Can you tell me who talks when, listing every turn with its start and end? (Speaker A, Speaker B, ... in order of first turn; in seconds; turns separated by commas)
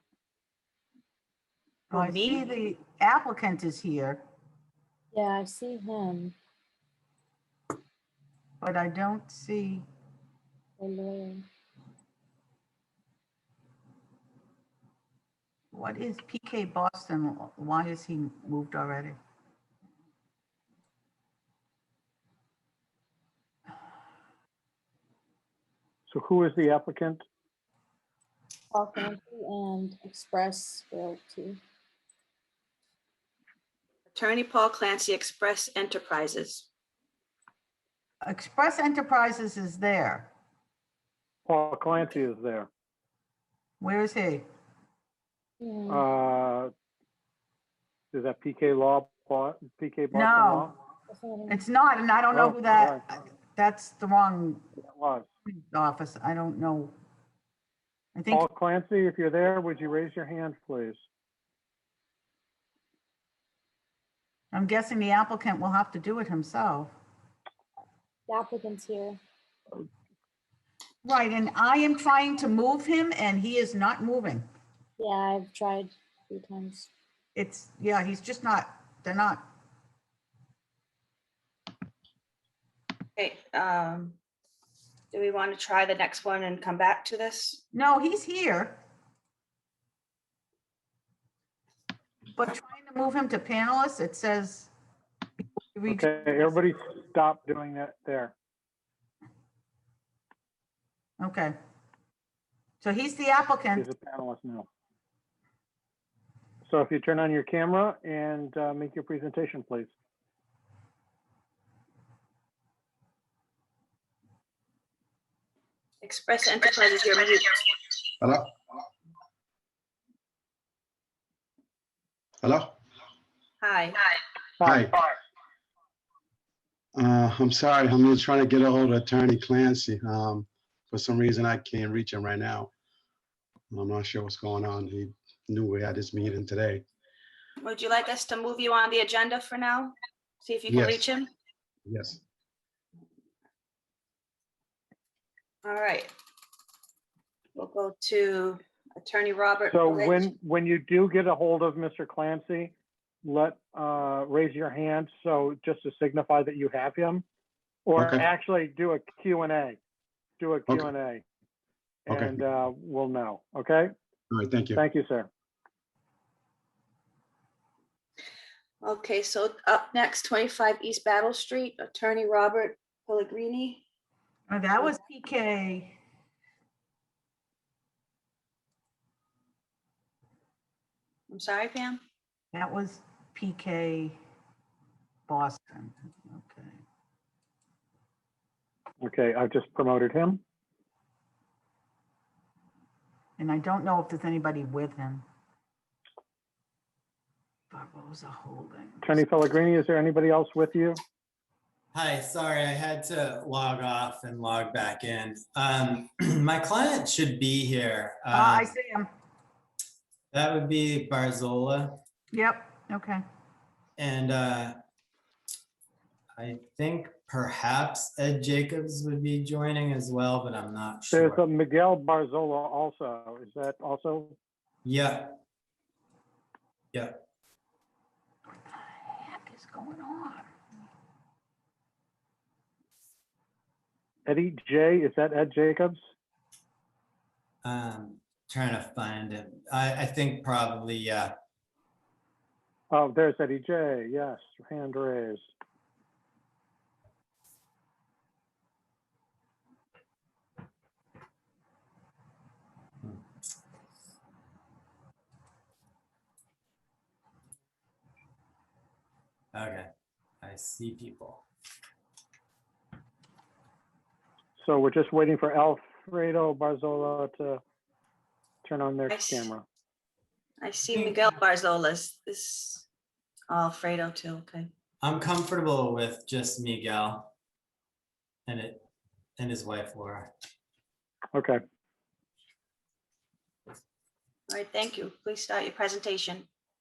Speaker A: 1.9-2.5, Speaker B: 1.9-4.2, Speaker C: 5.1-6.3, Speaker B: 8.6-9.9, Speaker C: 10.8-11.5, Speaker B: 15.7-19.2, Speaker D: 26.1-27.2, Speaker C: 28.7-31.6, Speaker A: 34.1-36.7, Speaker B: 38.2-40.3, Speaker D: 41.5-42.7, Speaker B: 43.8-44.5, Speaker C: 45.6-46.0, Speaker D: 45.9-46.7, Speaker D: 48.1-50.7, Speaker B: 50.1-50.7, Speaker C: 51.1-51.6, Speaker B: 51.5-54.6, Speaker D: 52.3-53.0, Speaker D: 54.8-55.3, Speaker B: 55.5-57.0, Speaker B: 58.1-58.5, Speaker D: 58.3-61.0, Speaker B: 64.5-66.9, Speaker C: 68.3-69.2, Speaker B: 71.0-74.5, Speaker C: 75.0-76.9, Speaker B: 77.3-79.5, Speaker A: 83.2-84.2, Speaker A: 85.1-87.6, Speaker B: 87.7-88.8, Speaker B: 92.3-94.7, Speaker B: 95.7-96.5, Speaker D: 95.9-98.3, Speaker B: 101.2-101.5, Speaker B: 102.8-103.9, Speaker D: 103.8-104.7, Speaker D: 106.7-109.9, Speaker A: 116.0-117.6, Speaker E: 118.2-118.5, Speaker E: 122.4-122.7, Speaker A: 123.6-124.0, Speaker D: 124.6-125.1, Speaker E: 124.6-125.0, Speaker E: 127.0-132.7, Speaker E: 133.7-136.8, Speaker A: 137.6-141.3, Speaker E: 140.7-141.1, Speaker E: 141.9-142.2, Speaker A: 145.6-146.1, Speaker A: 147.6-150.3, Speaker D: 149.7-157.2, Speaker D: 157.9-159.8, Speaker E: 158.0-158.3, Speaker D: 160.4-161.2, Speaker D: 162.1-163.9, Speaker E: 162.1-162.4, Speaker E: 164.3-164.8, Speaker D: 164.7-165.3, Speaker A: 168.8-173.8, Speaker B: 174.5-176.0, Speaker A: 181.3-182.0, Speaker B: 182.5-184.2, Speaker B: 185.3-186.8, Speaker D: 189.0-190.4, Speaker B: 193.4-195.2, Speaker B: 197.7-199.0, Speaker D: 199.0-201.0, Speaker F: 201.9-208.7, Speaker B: 208.3-209.1, Speaker F: 210.3-212.0, Speaker B: 212.3-213.2, Speaker F: 214.0-214.8, Speaker F: 216.4-221.4, Speaker D: 221.1-224.4, Speaker F: 224.8-225.4, Speaker F: 226.9-227.2, Speaker B: 228.7-230.5, Speaker D: 234.3-236.0, Speaker F: 237.6-241.3, Speaker D: 242.9-245.4, Speaker F: 259.5-259.9, Speaker F: 260.4-261.4, Speaker D: 264.6-267.6, Speaker D: 268.6-269.6, Speaker A: 269.1-269.5, Speaker A: 270.6-272.9, Speaker F: 270.9-271.2, Speaker A: 273.5-274.7, Speaker F: 275.0-277.3, Speaker F: 278.5-278.8, Speaker F: 279.4-280.3, Speaker D: 281.3-281.6, Speaker A: 284.5-286.5